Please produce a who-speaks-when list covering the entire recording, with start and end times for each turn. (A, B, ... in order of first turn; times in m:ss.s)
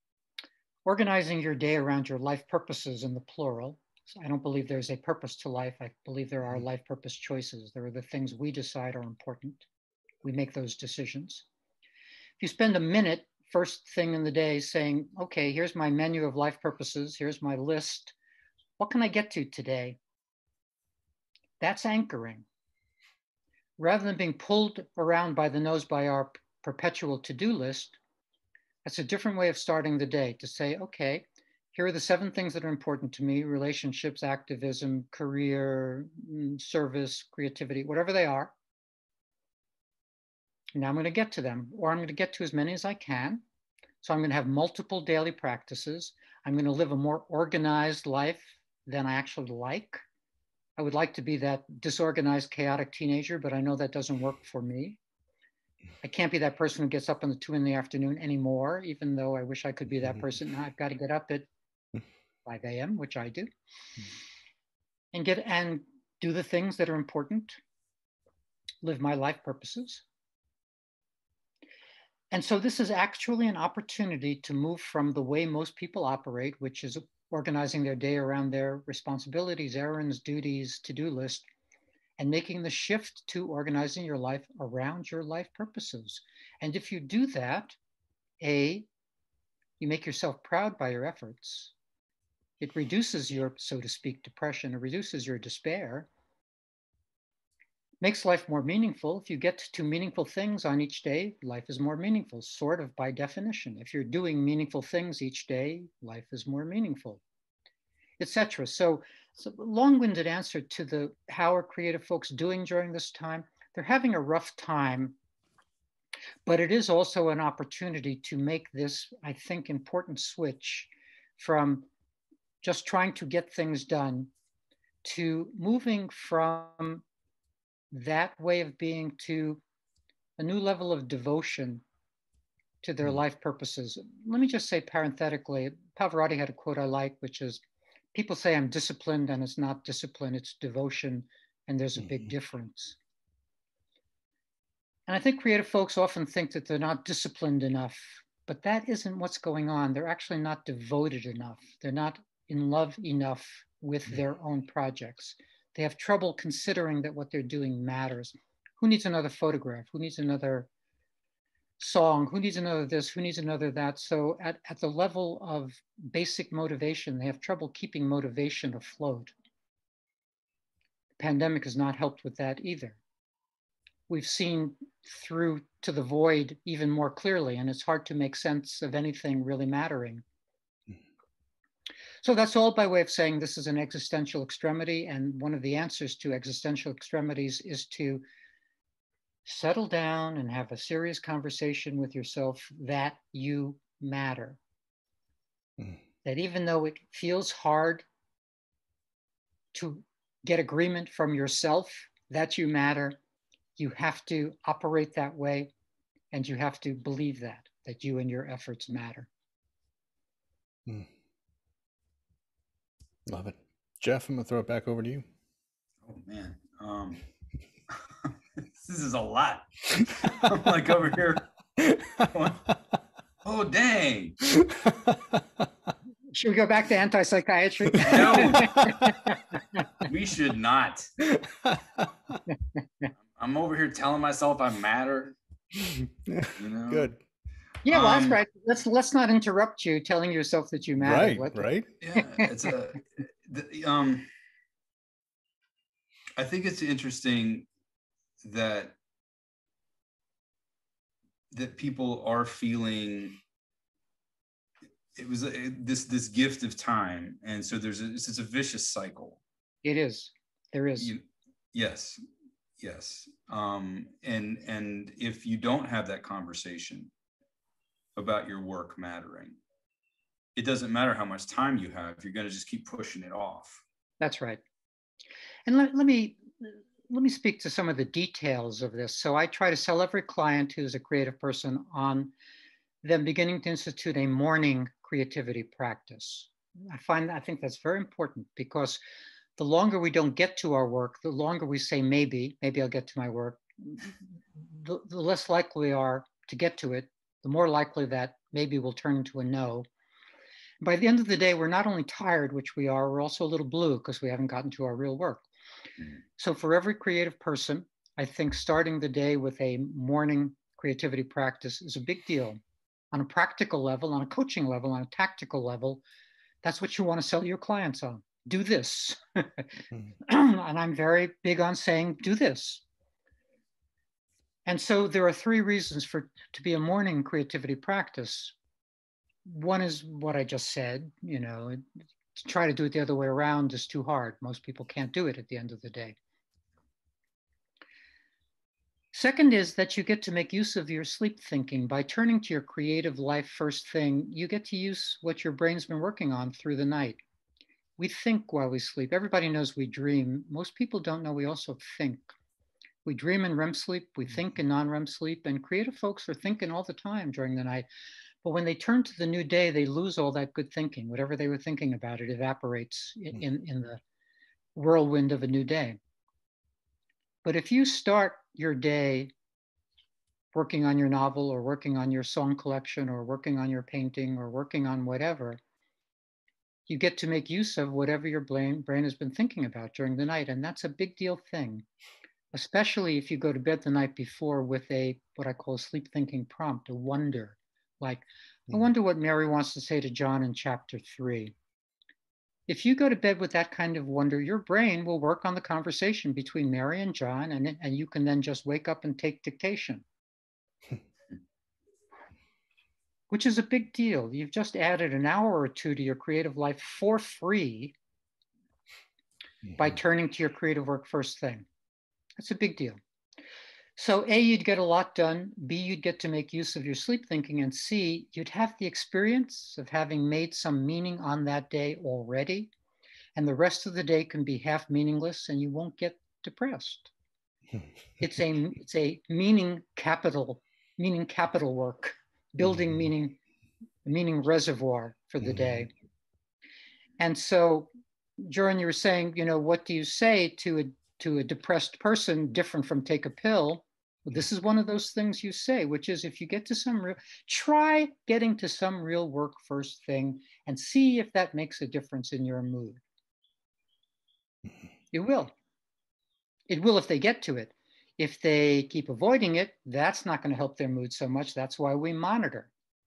0:00.8-0:09.6 A
0:10.2-0:11.4 A
0:12.4-0:18.1 A
0:18.8-0:20.0 A
0:21.6-0:22.4 A
0:23.8-0:28.0 A
0:28.8-0:38.5 A
0:40.8-0:43.4 A
0:44.0-0:50.0 A
0:50.8-0:55.0 A
0:56.0-1:01.5 A
1:02.4-1:03.5 A
1:05.1-1:07.6 A
1:08.8-1:10.0 A
1:12.3-1:21.5 A
1:22.2-1:27.8 A
1:28.4-1:28.9 A
1:29.8-1:31.7 A
1:32.6-1:36.1 A
1:38.0-1:47.2 A
1:48.2-1:55.2 A
1:56.4-2:01.9 A
2:02.6-2:04.3 A
2:05.0-2:07.0 A
2:07.9-2:09.6 A
2:10.4-2:11.8 A
2:12.8-2:17.6 A
2:18.1-2:23.0 A
2:22.0-2:22.2 B
2:25.1-2:40.7 A
2:41.8-2:49.3 A
2:51.2-2:53.0 A
2:54.1-3:00.2 A
3:02.2-3:08.2 A
3:09.4-3:14.6 A
3:16.2-3:18.0 A
3:19.7-3:23.2 A
3:23.8-3:25.7 A
3:26.3-3:29.3 A
3:33.2-3:35.2 B
3:36.0-3:37.2 C
3:38.8-3:41.5 C
3:41.8-3:42.3 B
3:42.2-3:42.7 C
3:43.4-3:44.4 C
3:44.6-3:45.4 B
3:46.3-3:49.8 A
3:48.0-3:48.9 C
3:48.6-3:49.1 B
3:50.0-3:51.1 C
3:51.3-3:52.3 B
3:52.5-3:53.0 A
3:53.4-3:55.4 C
3:55.8-3:57.2 B
3:56.5-3:57.1 C
3:57.8-4:02.4 A
3:57.8-3:58.4 C
4:01.0-4:01.9 B
4:02.0-4:04.3 C
4:06.4-4:07.7 C
4:08.4-4:09.0 C
4:11.5-4:13.4 C
4:15.2-4:19.4 C
4:19.8-4:21.1 A
4:21.0-4:22.2 C
4:22.8-4:27.1 C
4:28.2-4:29.6 C
4:30.6-4:33.8 C
4:34.2-4:34.6 A
4:35.7-4:42.3 A
4:43.0-4:49.0 A
4:49.6-4:59.9 A
5:00.8-5:05.4 A
5:06.4-5:12.6 A
5:13.1-5:16.0 A
5:16.6-5:19.7 A
5:20.2-5:22.8 A
5:24.6-5:28.5 A
5:29.4-5:31.8 A
5:32.3-5:36.2 A
5:39.1-5:47.2 A
5:48.0-5:52.3 A
5:53.0-5:57.8 A
5:58.4-6:04.0 A
6:04.7-6:06.0 A
6:07.4-6:09.3 A
6:10.5-6:15.6 A
6:16.9-6:21.8 A
6:22.5-6:31.5 A
6:32.7-6:40.0 A
6:43.3-6:47.9 A
6:49.8-6:51.6 A
6:52.4-6:53.0 A
6:54.0-7:02.7 A
7:03.4-7:07.1 A
7:08.2-7:13.4 A
7:14.0-7:15.9 A
7:15.4-7:15.8 B
7:17.2-7:33.0 A
7:35.1-7:35.5 A
7:36.7-7:42.7 A